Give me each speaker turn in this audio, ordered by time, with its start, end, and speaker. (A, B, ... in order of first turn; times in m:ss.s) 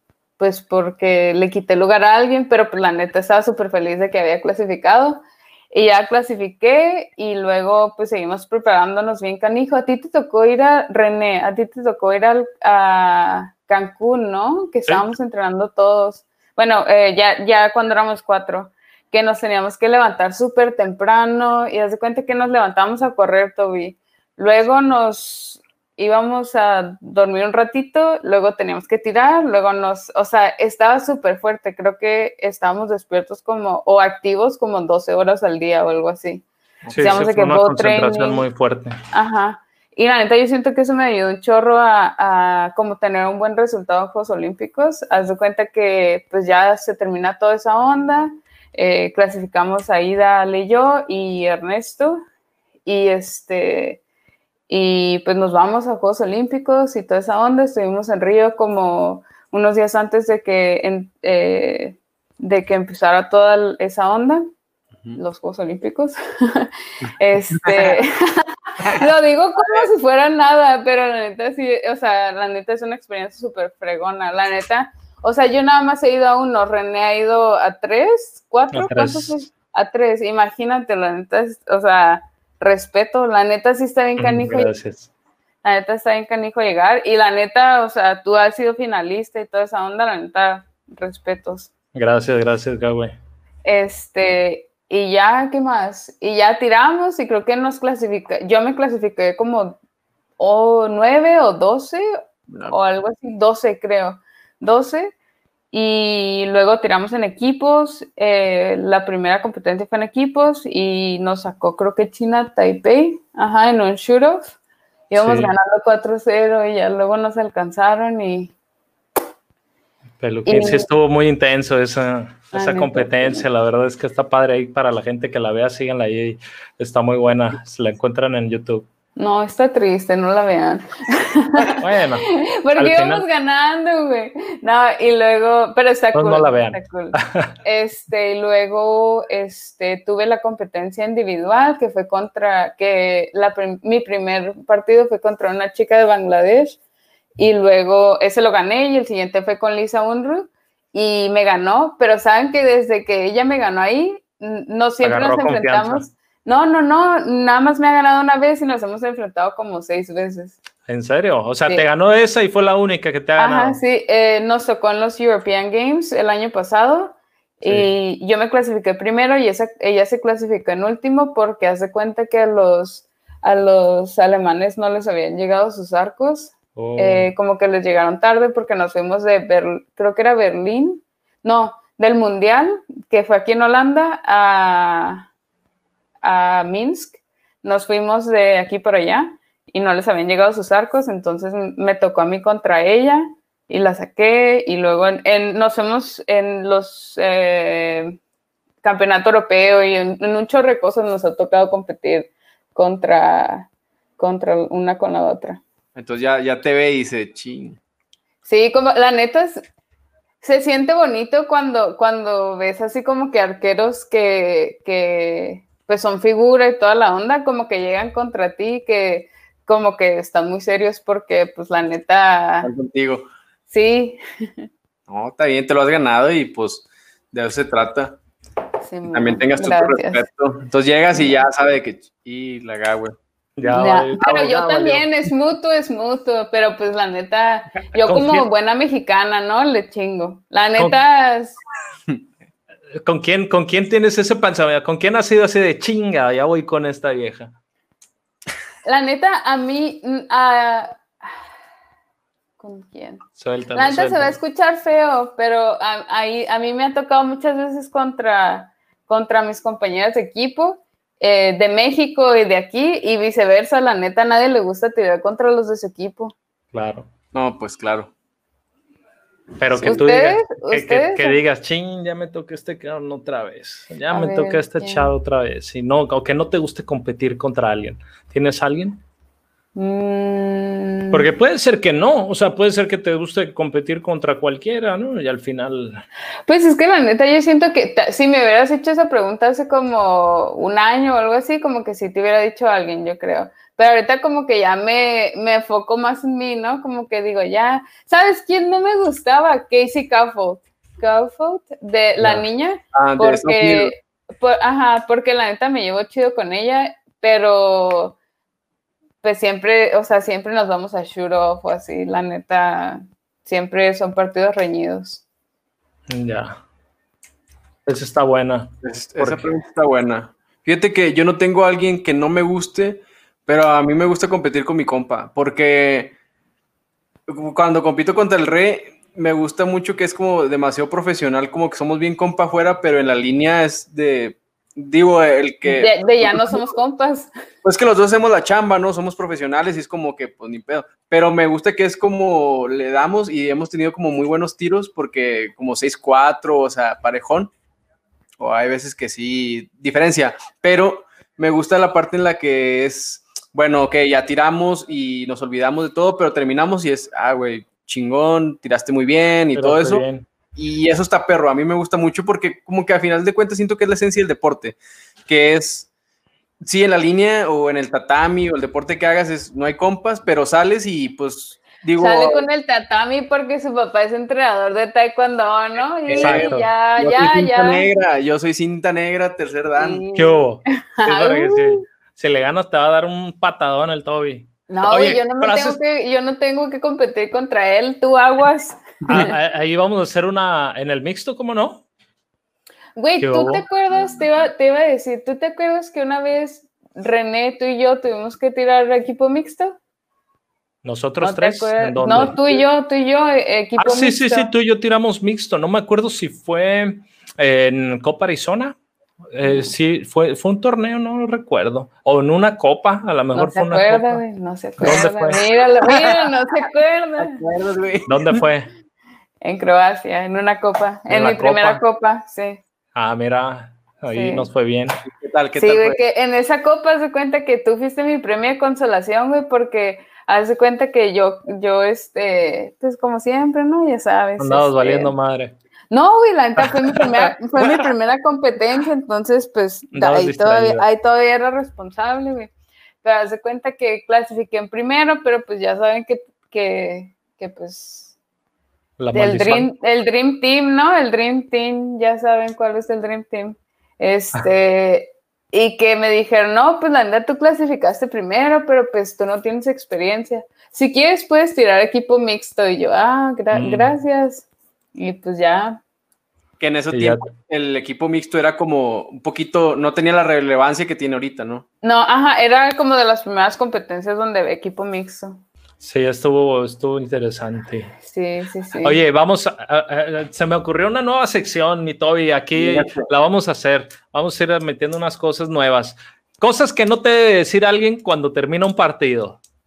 0:00.4-0:36.4 A
0:36.8-0:37.2 B
0:36.9-0:39.0 C
0:37.0-0:38.4 A
0:39.1-0:52.2 A
0:52.8-0:54.0 A
0:54.7-1:04.4 A
1:05.2-1:24.7 A
1:07.6-1:08.0 B
1:09.6-1:09.9 B
1:18.7-1:19.4 C
1:24.2-1:25.1 C
1:25.6-1:31.7 A
1:31.9-1:33.1 C
1:33.6-1:39.8 A
1:40.4-1:42.0 A
1:42.5-1:42.7 B
1:42.7-1:45.1 A
1:45.7-1:54.6 A
1:55.1-1:58.5 A
1:55.2-1:55.5 C
2:00.2-2:08.9 C
2:00.4-2:00.9 A
2:02.5-2:03.4 A
2:09.2-2:26.8 A
2:11.6-2:13.2 C
2:16.1-2:17.5 C
2:27.4-2:40.6 A
2:35.0-2:36.1 C
2:40.9-2:43.8 C
2:43.4-3:05.3 A
2:47.6-2:47.9 C
2:56.8-2:57.3 C
3:06.2-3:18.2 A
3:18.8-3:25.6 A
3:25.9-3:27.8 B
3:28.4-3:29.6 A
3:30.4-3:42.7 A
3:42.6-3:43.3 B
3:43.7-3:44.6 A
3:45.1-3:48.2 B
3:48.8-3:50.2 A
3:49.1-3:53.2 B
3:53.6-3:55.1 C
3:53.6-4:01.6 A
3:58.0-3:58.4 C
4:03.0-4:07.5 C
4:08.8-4:11.0 A
4:12.6-4:26.3 A
4:13.4-4:14.4 C
4:26.7-4:27.1 C
4:27.3-4:28.1 B
4:29.6-4:39.0 C
4:29.7-4:30.0 B
4:29.8-4:31.4 A
4:34.1-4:35.1 A
4:39.7-4:41.2 A
4:41.1-4:46.0 C
4:46.5-5:08.2 A
5:02.2-5:03.9 B
5:09.2-5:15.2 A
5:16.1-5:16.6 C
5:17.8-5:19.5 C
5:18.8-5:26.1 B
5:27.3-5:36.7 B
5:35.6-5:37.3 A
5:37.6-5:47.5 B
5:48.4-6:00.0 B
5:59.6-6:00.2 C
6:00.6-6:05.9 B
6:06.6-6:12.4 B
6:12.0-6:17.9 A
6:16.1-6:20.0 B
6:16.2-6:16.7 C
6:19.8-6:20.4 A
6:20.1-6:25.8 C
6:21.0-6:21.8 A
6:24.7-6:29.3 A
6:29.1-6:31.8 C
6:33.0-6:39.8 A
6:33.2-6:33.6 C
6:40.8-6:42.4 C
6:41.2-6:44.5 A
6:43.8-6:48.8 C
6:49.3-6:54.2 C
6:49.4-6:49.7 A
6:53.3-6:57.4 A
6:54.8-6:55.4 C
6:57.2-6:58.4 B
6:58.1-6:58.7 C
6:59.4-7:02.6 A
7:01.1-7:01.8 C
7:02.9-7:05.0 C
7:04.1-7:04.5 A
7:05.0-7:06.0 B
7:05.6-7:15.1 A
7:14.4-7:15.5 C
7:15.9-7:22.5 A
7:16.6-7:17.8 C
7:19.9-7:20.8 C
7:23.0-7:28.1 A
7:29.0-7:29.7 C
7:29.1-7:45.8 A
7:43.5-7:43.9 C
7:46.6-7:51.6 B
7:46.9-7:47.3 C
7:51.8-7:55.4 A
7:55.8-7:57.9 C
7:58.0-7:59.0 A
7:58.8-8:09.4 C
8:02.5-8:03.1 B